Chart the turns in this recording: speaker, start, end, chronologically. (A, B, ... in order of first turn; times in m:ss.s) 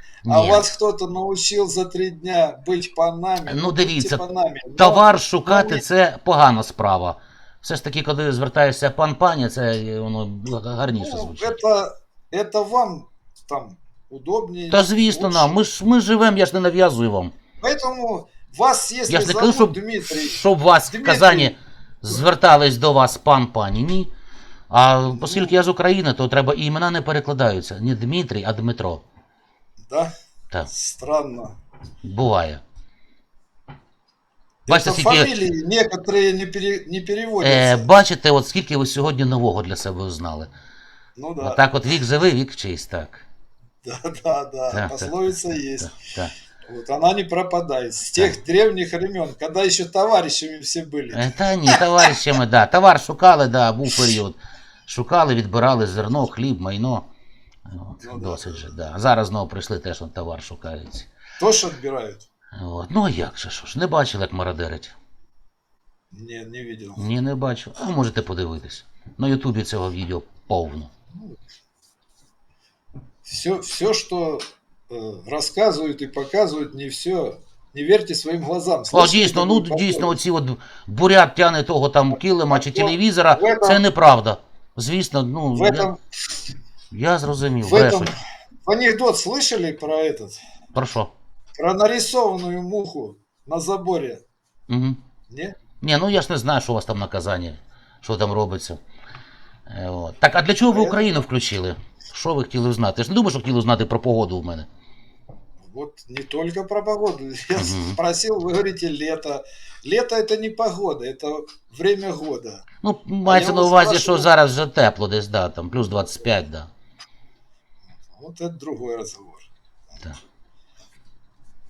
0:00.2-0:00.7 A
0:00.3-0:05.8 B
0:03.5-0:04.2 A
0:04.8-0:11.6 A
0:10.9-0:15.6 B
0:14.7-0:17.4 A
0:17.6-0:21.5 B
0:19.1-0:24.1 A
0:24.7-0:29.0 A
0:25.1-0:25.5 B
0:30.7-0:31.6 B
0:32.0-0:32.6 A
0:34.7-0:37.9 B
0:34.7-0:35.3 A
0:37.4-0:40.5 A
0:41.2-0:41.6 B
0:41.4-0:43.2 A
0:43.8-0:45.9 B
0:44.7-0:45.1 A
0:45.8-0:46.3 A
0:46.7-0:52.1 B
0:51.1-0:57.1 A
0:57.7-1:01.1 A
0:58.0-0:58.7 B
1:01.4-1:02.2 B
1:02.6-1:05.0 A
1:06.1-1:07.0 B
1:07.0-1:10.9 A
1:13.3-1:20.2 B
1:18.9-1:25.9 A
1:22.5-1:23.8 B
1:25.6-1:26.0 B
1:26.9-1:28.1 A
1:27.6-1:28.1 B
1:28.7-1:30.4 B
1:30.7-1:31.1 A
1:31.6-1:34.2 B
1:34.7-1:35.0 A
1:35.3-1:35.6 B
1:35.8-1:38.8 A
1:39.7-1:44.7 A
1:40.7-1:41.1 B
1:45.6-1:52.6 B
1:47.6-1:48.0 A
1:52.8-1:56.7 A
1:53.2-1:54.3 B
1:58.2-1:59.5 B